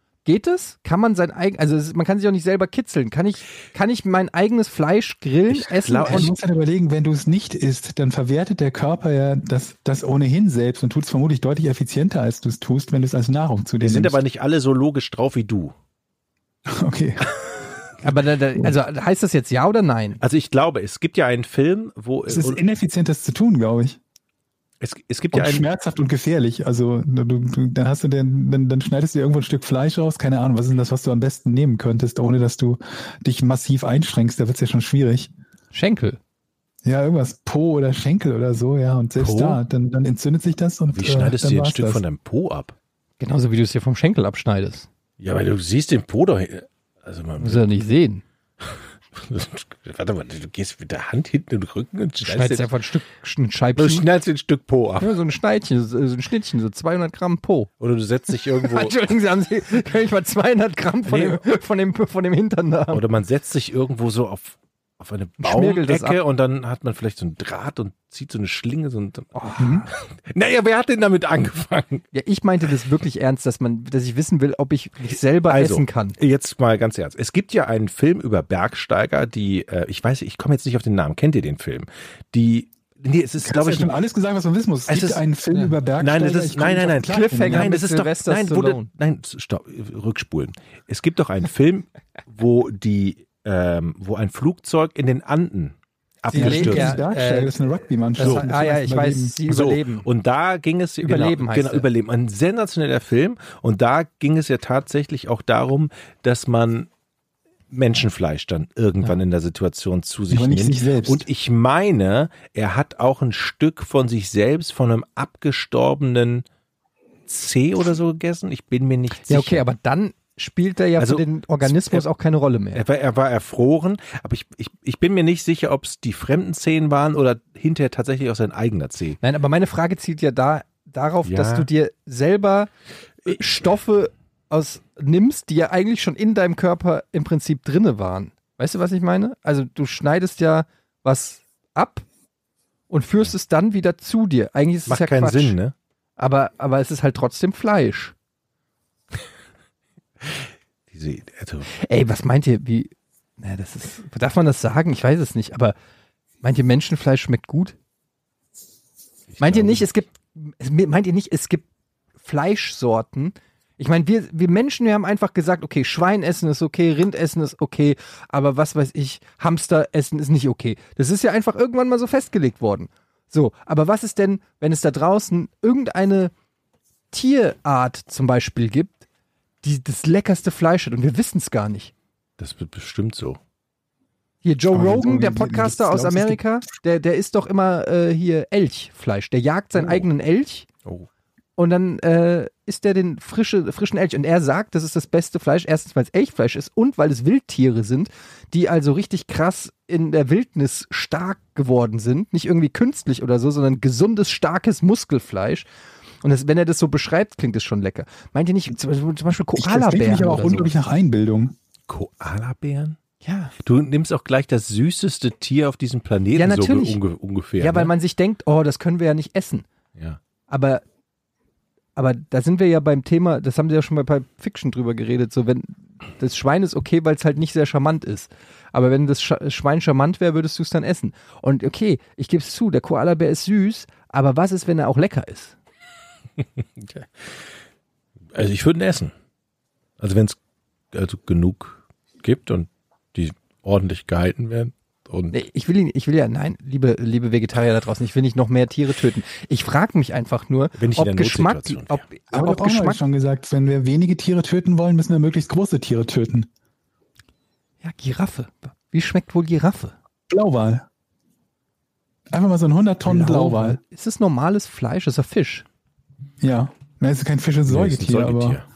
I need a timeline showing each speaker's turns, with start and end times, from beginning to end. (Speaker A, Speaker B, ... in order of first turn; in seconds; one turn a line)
Speaker A: 0.2-6.3
Speaker B: 5.5-6.3
Speaker C: 6.0-14.2
Speaker B: 13.8-15.8
Speaker C: 16.7-17.3
Speaker A: 18.0-20.2
Speaker B: 20.2-22.6
Speaker C: 22.3-24.0
Speaker B: 24.8-25.7
Speaker C: 25.3-35.3
Speaker A: 35.7-36.2
Speaker C: 36.8-42.0
Speaker B: 39.2-39.6
Speaker B: 40.9-42.8
Speaker A: 43.2-44.9
Speaker B: 45.2-47.6
Speaker A: 47.4-48.2
Speaker B: 48.6-52.7
Speaker A: 52.2-54.0
Speaker B: 53.8-55.2
Speaker A: 55.0-57.7
Speaker B: 57.8-59.0
Speaker A: 58.5-63.0
Speaker B: 61.1-61.4
Speaker B: 62.9-72.0
Speaker A: 65.4-66.2
Speaker A: 69.3-69.9
Speaker C: 69.6-69.9
Speaker A: 72.1-76.2
Speaker B: 75.5-84.0
Speaker C: 83.4-87.7
Speaker B: 84.9-85.2
Speaker B: 86.0-97.0
Speaker A: 87.1-88.9
Speaker A: 96.3-97.5
Speaker C: 96.3-99.4
Speaker A: 98.2-100.1
Speaker B: 98.2-98.5
Speaker B: 99.5-106.9
Speaker A: 101.0-101.9
Speaker B: 107.7-116.5
Speaker C: 110.3-111.3
Speaker B: 117.3-119.6
Speaker A: 119.3-122.8
Speaker B: 121.0-122.1
Speaker B: 122.7-129.2
Speaker A: 129.2-132.7
Speaker B: 131.2-131.7
Speaker A: 133.2-142.1
Speaker A: 142.9-145.6
Speaker B: 144.9-145.7
Speaker A: 146.2-148.1
Speaker B: 150.2-151.7
Speaker A: 151.7-155.8
Speaker A: 156.4-157.8
Speaker B: 159.3-159.9
Speaker A: 159.4-161.7
Speaker A: 162.2-176.3
Speaker A: 177.1-179.1
Speaker A: 179.6-181.9
Speaker B: 182.4-183.4
Speaker A: 184.4-190.7
Speaker C: 184.7-186.4
Speaker B: 189.8-190.1
Speaker A: 191.6-205.7
Speaker A: 206.2-210.7
Speaker C: 209.6-211.6
Speaker B: 211.9-213.0
Speaker A: 213.2-213.5
Speaker B: 213.6-217.9
Speaker A: 216.3-217.0
Speaker A: 217.6-219.7
Speaker A: 220.5-220.8
Speaker A: 222.0-235.6
Speaker B: 236.8-237.1
Speaker B: 238.3-239.1
Speaker B: 240.0-240.4
Speaker B: 240.9-245.4
Speaker A: 245.3-253.0
Speaker B: 250.8-252.1
Speaker C: 252.3-256.5
Speaker A: 257.8-259.9
Speaker C: 260.3-260.9
Speaker C: 262.3-263.8
Speaker A: 263.1-265.7
Speaker C: 266.4-268.6
Speaker B: 267.7-268.6